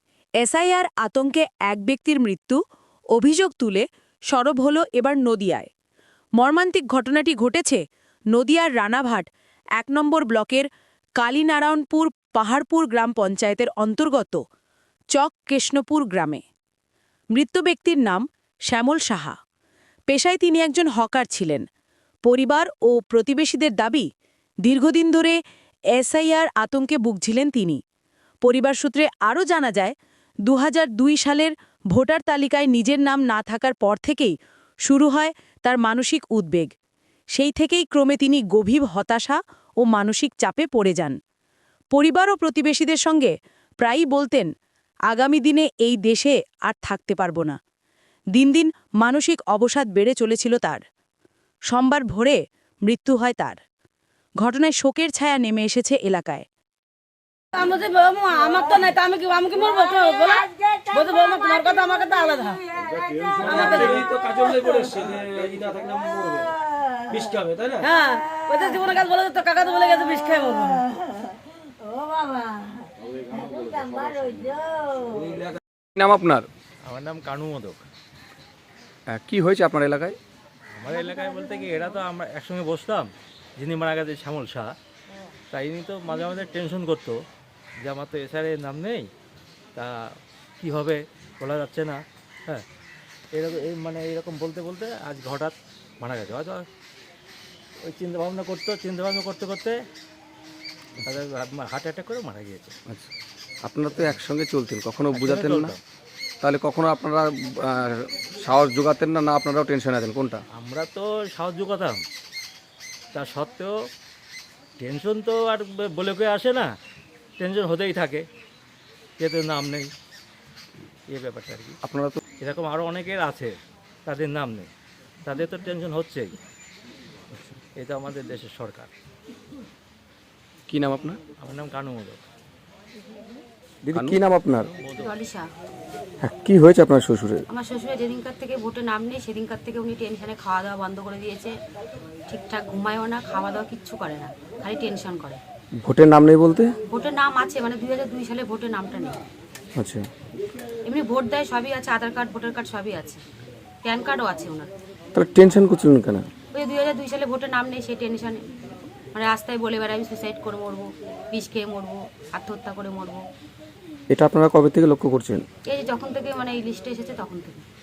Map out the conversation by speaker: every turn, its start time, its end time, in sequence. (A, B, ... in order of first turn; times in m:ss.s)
0:00.4-0:02.6 A
0:03.2-0:05.7 A
0:06.4-0:07.8 A
0:08.3-0:14.4 A
0:15.1-0:16.4 A
0:17.3-0:19.4 A
0:20.1-0:21.6 A
0:22.2-0:24.1 A
0:24.6-0:25.4 A
0:26.0-0:27.8 A
0:28.4-0:30.0 A
0:30.4-0:34.3 A
0:34.9-0:36.7 A
0:37.3-0:41.2 A
0:41.9-0:44.5 A
0:45.1-0:47.6 A
0:48.3-0:50.8 A
0:51.7-0:53.6 A
0:54.4-0:56.4 A
0:57.5-1:02.6 B
1:03.2-1:06.5 C
1:03.4-1:04.1 B
1:07.2-1:07.8 C
1:07.8-1:10.9 B
1:12.2-1:12.4 B
1:13.4-1:14.4 C
1:16.0-1:16.5 D
1:16.8-1:17.8 E
1:19.1-1:20.2 D
1:20.8-1:24.7 E
1:25.5-1:27.2 E
1:27.8-1:29.1 E
1:29.8-1:32.6 E
1:33.3-1:36.7 E
1:37.8-1:39.8 E
1:41.0-1:42.8 E
1:43.6-1:45.7 D
1:45.1-1:45.8 E
1:46.4-1:50.4 D
1:50.6-1:52.0 E
1:53.1-1:53.7 E
1:54.8-1:56.7 E
1:57.4-1:58.2 E
1:59.2-1:59.9 E
2:01.1-2:01.8 E
2:01.8-2:02.2 D
2:02.4-2:04.7 E
2:05.2-2:06.4 E
2:07.8-2:08.9 E
2:10.7-2:11.2 D
2:11.4-2:12.2 E
2:13.9-2:14.7 D
2:14.5-2:15.2 E
2:15.0-2:15.5 F
2:16.2-2:17.4 D
2:17.5-2:21.6 F
2:22.3-2:25.4 F
2:25.8-2:26.8 D
2:26.9-2:29.2 F
2:29.8-2:30.1 D
2:30.8-2:33.2 F
2:33.8-2:34.7 F
2:35.1-2:36.3 D
2:36.5-2:38.4 F
2:39.1-2:43.2 F
2:44.1-2:45.4 D
2:45.7-2:47.6 F